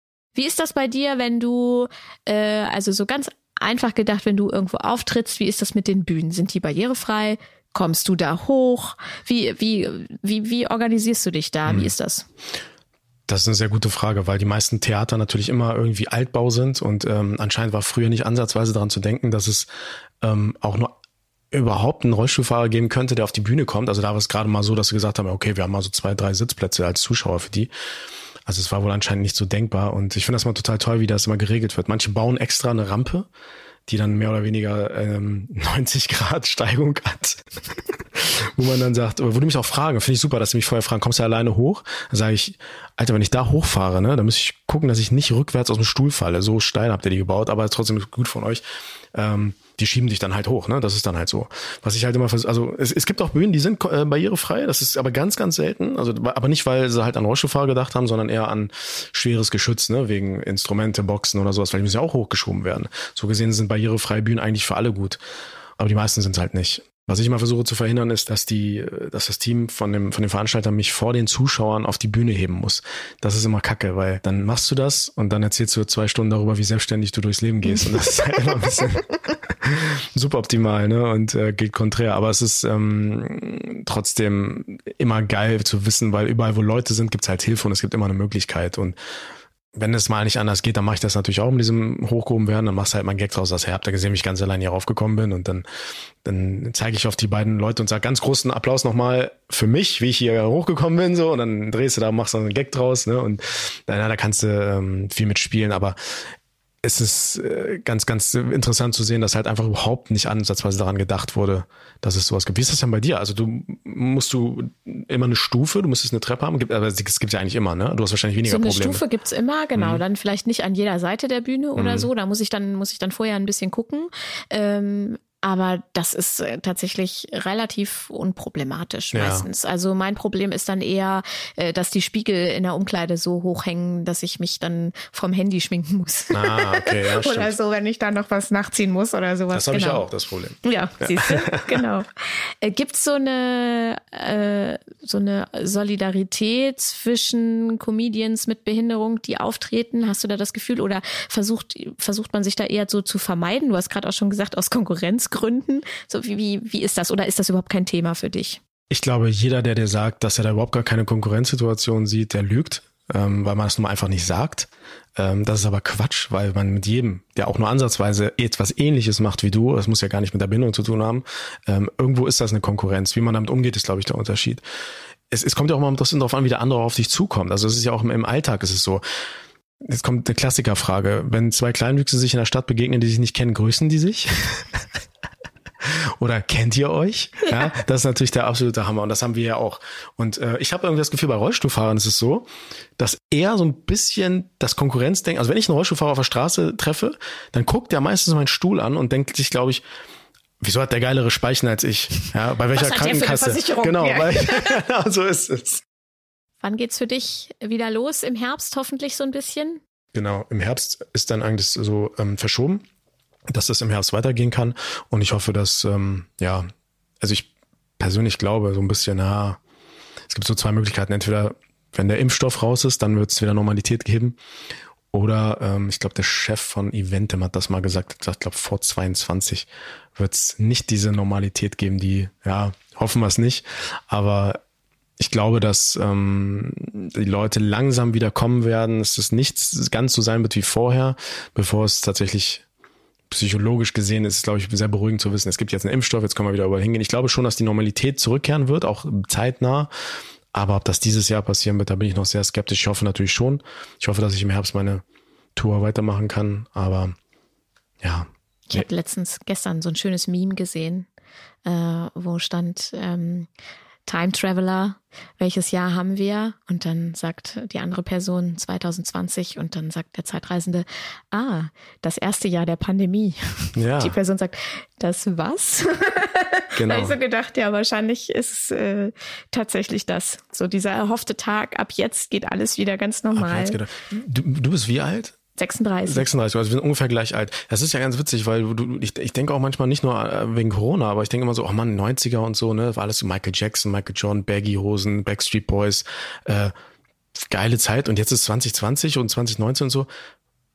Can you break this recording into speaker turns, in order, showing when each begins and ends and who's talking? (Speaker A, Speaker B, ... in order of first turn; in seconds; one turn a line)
Speaker A: 0.3-12.2
Speaker B: 11.7-11.9
Speaker B: 13.3-19.7
Speaker B: 20.2-20.9
Speaker B: 21.5-27.7
Speaker B: 28.5-33.3
Speaker B: 33.9-37.4
Speaker B: 38.1-48.6
Speaker B: 49.1-65.2
Speaker B: 65.8-88.9
Speaker B: 89.7-95.6
Speaker B: 96.2-106.0
Speaker B: 106.8-119.0
Speaker A: 118.5-140.0
Speaker B: 119.7-120.0
Speaker B: 121.8-122.1
Speaker B: 129.1-129.5
Speaker B: 136.3-137.5
Speaker B: 139.5-141.8
Speaker A: 140.6-158.6
Speaker B: 158.9-174.6
Speaker B: 175.3-179.0
Speaker B: 179.8-184.8
Speaker B: 185.8-192.4
Speaker B: 193.0-199.8
Speaker B: 200.6-205.8
Speaker A: 202.7-204.8
Speaker A: 206.6-209.8
Speaker B: 210.1-212.8
Speaker B: 213.5-216.7
Speaker B: 217.2-219.6
Speaker B: 220.3-224.4
Speaker B: 225.1-234.6
Speaker B: 235.2-242.6
Speaker B: 243.3-249.9
Speaker B: 250.5-255.0
Speaker B: 255.6-257.1
Speaker B: 258.0-258.9
Speaker A: 258.7-261.1
Speaker A: 261.6-263.5
Speaker A: 264.1-283.8
Speaker B: 273.7-274.2
Speaker B: 276.7-277.1
Speaker B: 283.3-285.4
Speaker A: 285.6-286.3
Speaker B: 286.1-296.7
Speaker B: 297.5-300.1